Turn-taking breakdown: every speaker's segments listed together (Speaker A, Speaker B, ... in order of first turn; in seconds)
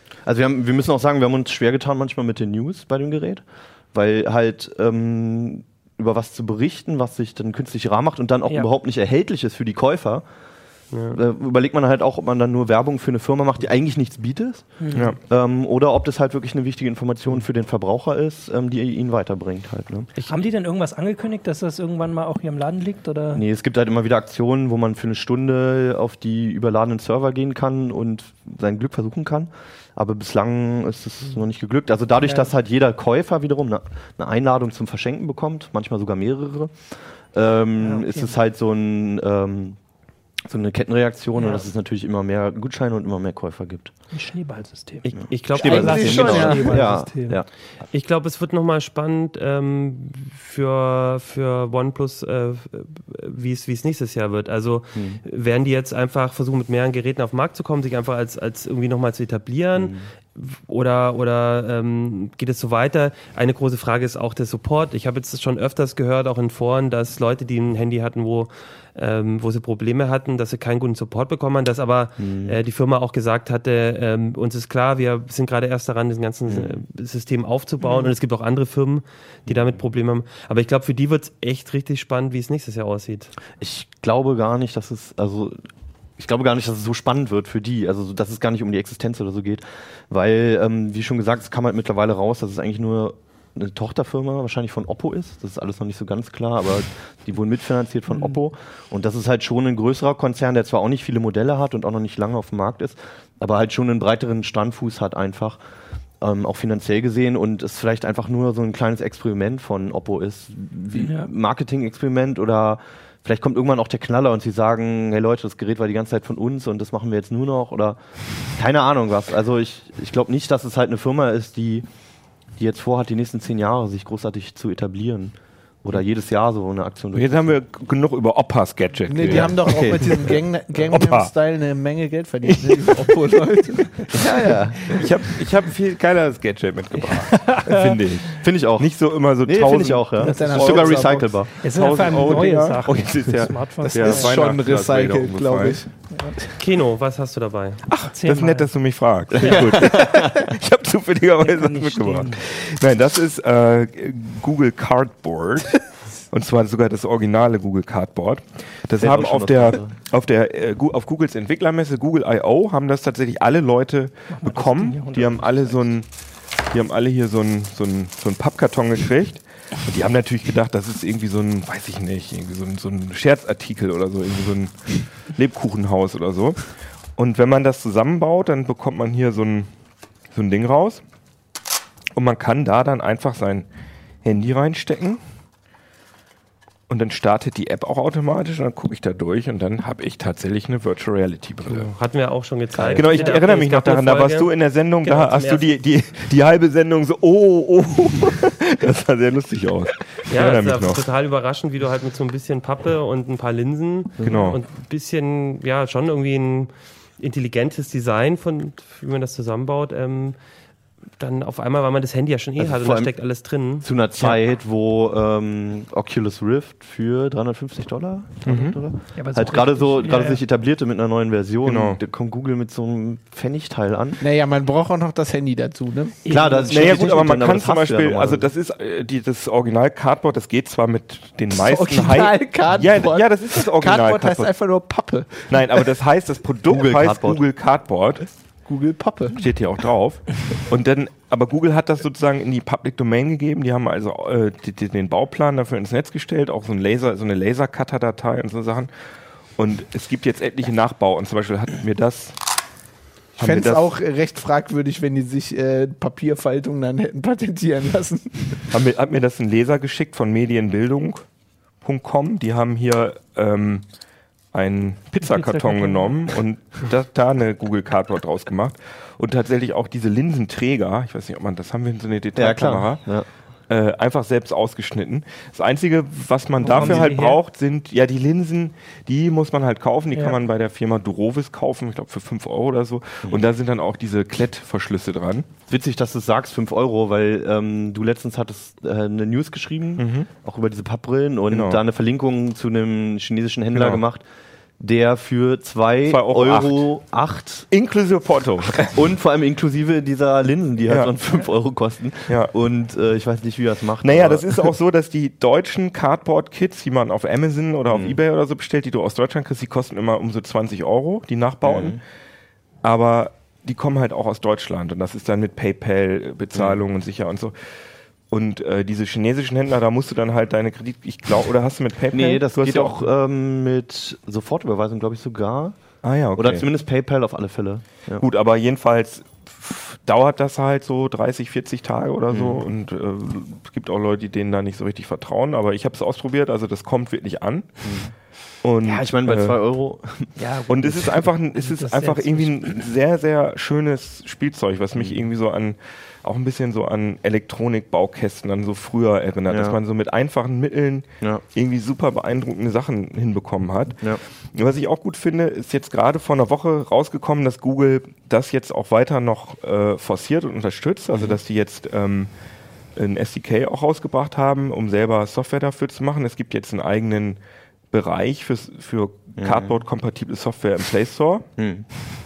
Speaker A: 0.2-10.3, 11.1-20.1, 23.3-36.8, 37.3-39.8, 40.5-43.9, 45.1-47.5, 55.0-55.2, 59.8-60.1, 72.2-72.6, 76.5-76.8, 83.6-85.6, 86.2-105.6, 106.2-118.0, 118.5-121.9, 122.6-127.4, 134.2-134.8, 138.3-141.5, 149.4-150.3, 159.0-159.9, 192.7-193.1, 204.2-204.5, 212.6-213.1, 213.8-224.2, 226.3-228.5, 236.7-237.4, 272.4-273.3, 276.7-277.1, 285.7-294.2, 294.8-297.7, 298.7-304.7, 307.9-308.2, 311.6-312.0, 316.5-316.8, 322.1-325.8, 326.3-328.2, 332.3-332.6, 337.8-338.1, 338.8-341.1, 344.9-345.3, 349.5-349.8, 361.1-361.4, 369.4-369.8, 371.6-371.9
Speaker B: 10.9-11.2, 45.3-46.6, 47.9-83.3, 146.6-147.8, 191.7-195.7, 200.3-210.4, 211.2-213.9
Speaker C: 14.8-15.1, 20.3-23.4, 32.2-32.5, 37.8-38.3, 41.4-41.7, 44.1-47.4, 77.8-78.1, 111.0-111.3, 137.3-137.9, 141.6-144.4, 148.0-148.7, 151.4-152.4, 164.3-165.9, 219.2-220.4, 226.2-227.1, 265.2-266.2, 276.6-277.4, 340.4-342.8
Speaker D: 14.9-15.2, 127.1-131.3, 132.4-133.3, 134.9-145.8, 147.9-166.1, 166.7-176.6, 177.2-179.7, 180.3-181.0, 182.2-183.7, 184.2-185.2, 186.9-191.9, 192.9-201.0, 204.2-204.6, 218.4-218.8, 221.6-222.0, 226.7-234.5, 235.5-238.3, 239.3-248.9, 249.6-252.4, 253.4-253.9, 258.7-261.2, 261.8-263.9, 264.5-273.0, 273.7-285.5, 290.0-290.3, 291.5-291.8, 293.8-294.0, 296.1-296.8, 297.7-299.0, 300.9-301.1, 304.0-312.0, 312.8-317.6, 318.3-323.0, 326.0-326.6, 328.2-337.7, 338.6-339.6, 340.7-354.0, 354.5-362.3, 363.0-367.4, 367.9-371.5
Speaker E: 45.6-47.0, 129.1-135.0, 140.2-141.3, 144.0-145.9, 224.2-226.6, 231.5-235.8, 238.7-239.4, 253.4-258.7